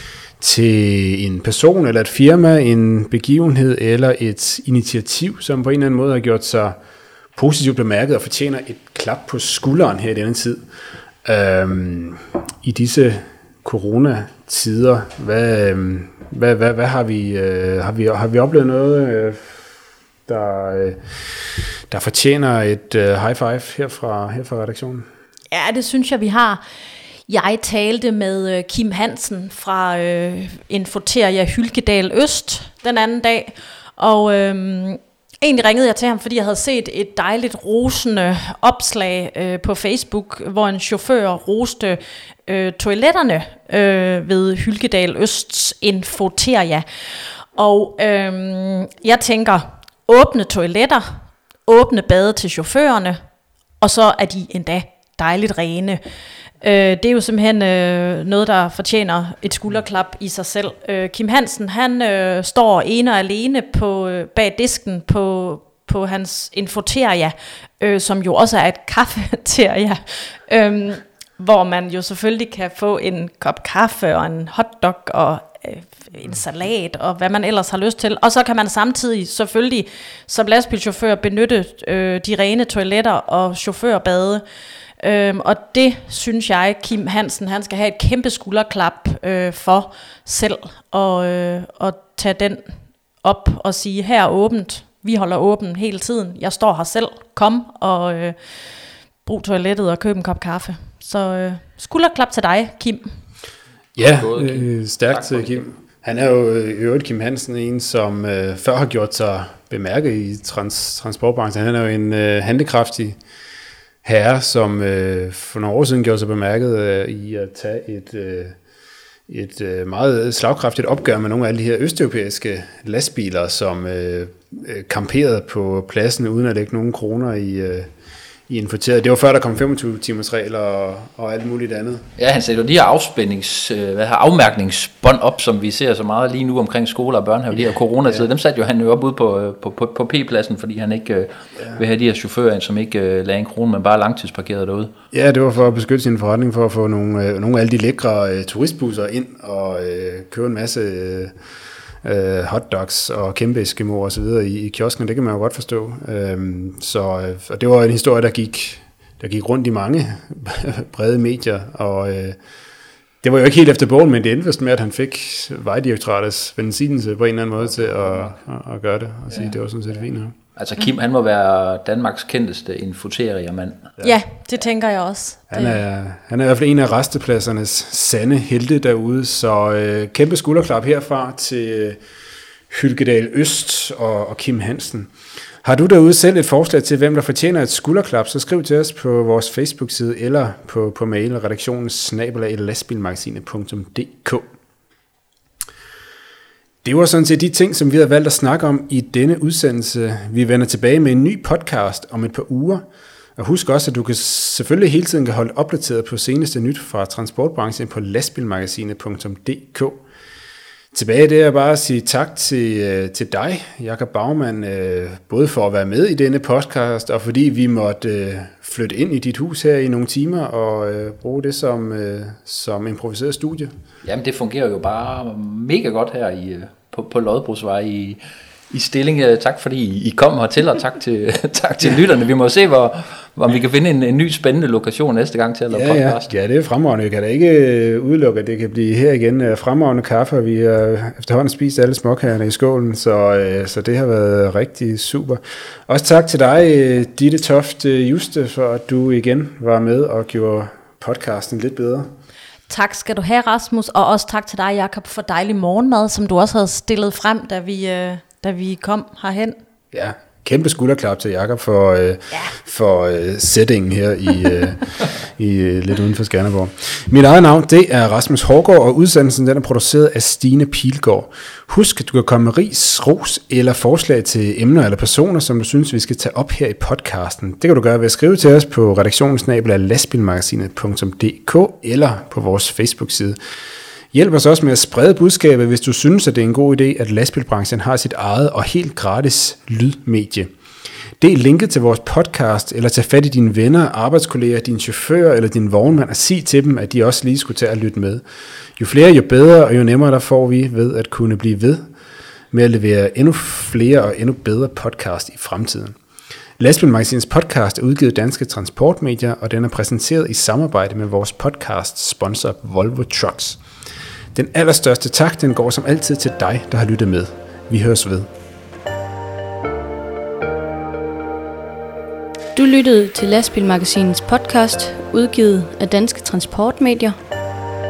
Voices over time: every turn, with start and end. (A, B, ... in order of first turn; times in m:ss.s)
0:00.4-0:06.8 A
0:07.4-0:10.6 A
0:11.2-0:19.7 A
0:20.3-0:21.0 A
0:21.9-0:25.1 A
0:25.5-0:26.6 B
0:27.3-0:46.8 B
0:47.6-0:53.2 B
0:53.8-0:56.0 B
0:56.6-1:24.4 B
1:25.0-1:32.6 B
1:33.2-1:38.4 B
1:39.2-1:43.1 B
1:44.0-1:53.2 A
1:44.0-1:45.7 C
1:54.0-1:58.6 A
1:59.3-2:07.9 A
2:08.5-2:12.1 A
2:12.2-2:24.9 C
2:25.1-2:31.3 A
2:32.0-2:42.4 A
2:43.2-2:50.3 A
2:50.6-2:53.9 C
2:54.0-2:55.7 B
2:55.5-3:02.0 A
3:02.7-3:05.1 A
3:05.6-3:14.5 A
3:16.8-3:22.8 A
3:23.4-3:30.0 A
3:30.9-3:43.7 A
3:44.0-3:56.3 C
3:55.7-4:12.1 A
4:12.7-4:19.6 B
4:19.9-4:43.4 A
4:44.1-4:50.5 A
4:51.2-4:58.2 A
4:58.8-5:01.9 A
5:02.5-5:06.0 A
5:06.6-5:13.6 A
5:14.3-5:18.3 A
5:22.6-5:27.2 D